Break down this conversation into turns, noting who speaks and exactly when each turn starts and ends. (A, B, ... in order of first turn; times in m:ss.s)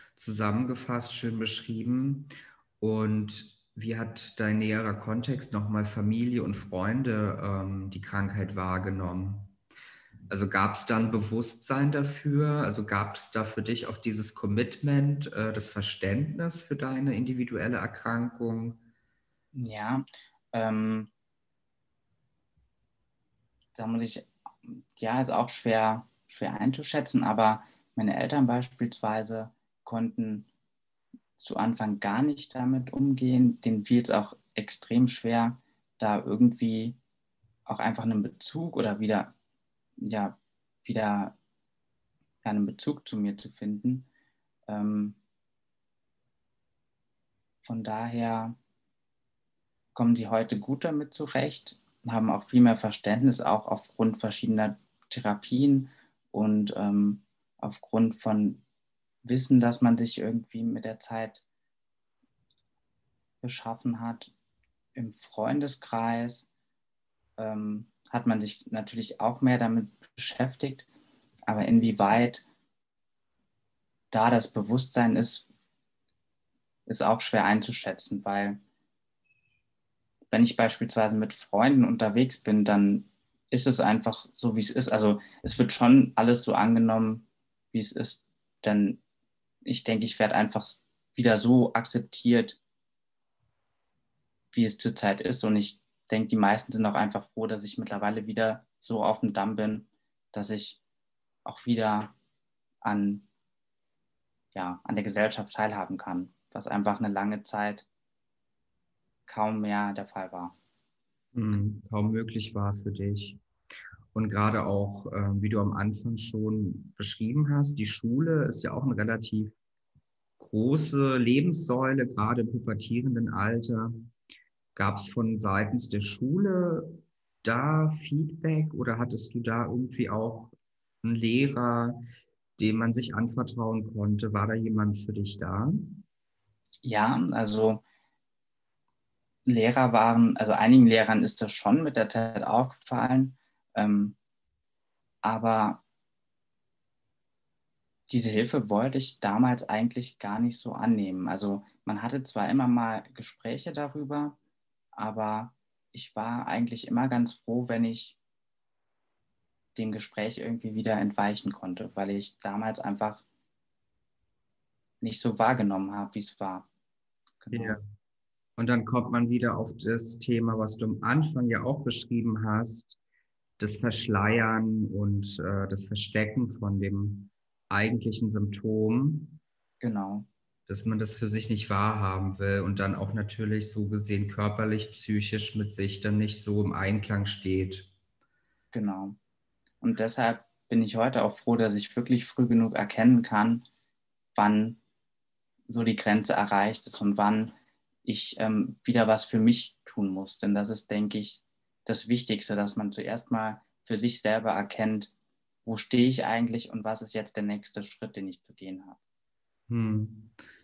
0:00.2-0:09.5 A
0:10.3-0:18.8 A
0:19.5-0:21.1 B
0:23.7-0:30.5 B
0:31.4-0:37.0 B
0:37.7-0:39.3 B
0:40.0-0:41.4 B
0:42.4-0:44.1 B
0:44.7-0:45.2 B
0:47.6-0:48.6 B
0:49.9-0:58.6 B
0:59.2-1:01.4 B
1:03.4-1:04.3 B
1:04.9-1:06.5 B
1:07.4-1:10.9 B
1:11.5-1:12.4 B
1:14.1-1:15.4 B
1:16.9-1:18.6 B
1:20.3-1:29.0 B
1:29.6-1:32.6 B
1:34.5-1:40.8 B
1:41.4-1:42.1 B
1:42.8-1:43.2 B
1:44.5-1:47.8 B
1:49.3-1:50.5 B
1:51.3-1:53.4 A
1:54.1-1:59.5 A
2:00.4-2:04.1 A
2:04.7-2:12.0 A
2:12.6-2:16.0 A
2:16.8-2:17.8 B
2:19.4-2:24.2 B
2:25.2-2:25.8 B
2:28.1-2:34.4 B
2:35.0-2:38.2 B
2:39.8-2:43.2 B
2:45.0-2:46.7 B
2:47.4-2:47.8 B
2:47.5-2:47.8 A
2:48.6-2:53.0 A
2:53.6-2:59.4 A
2:59.8-3:00.3 B
3:00.7-3:07.9 A
3:08.7-3:09.2 B
3:09.8-3:13.6 B
3:14.3-3:14.8 B
3:15.7-3:17.5 B
3:18.0-3:25.1 B
3:25.6-3:29.0 B
3:29.7-3:30.4 A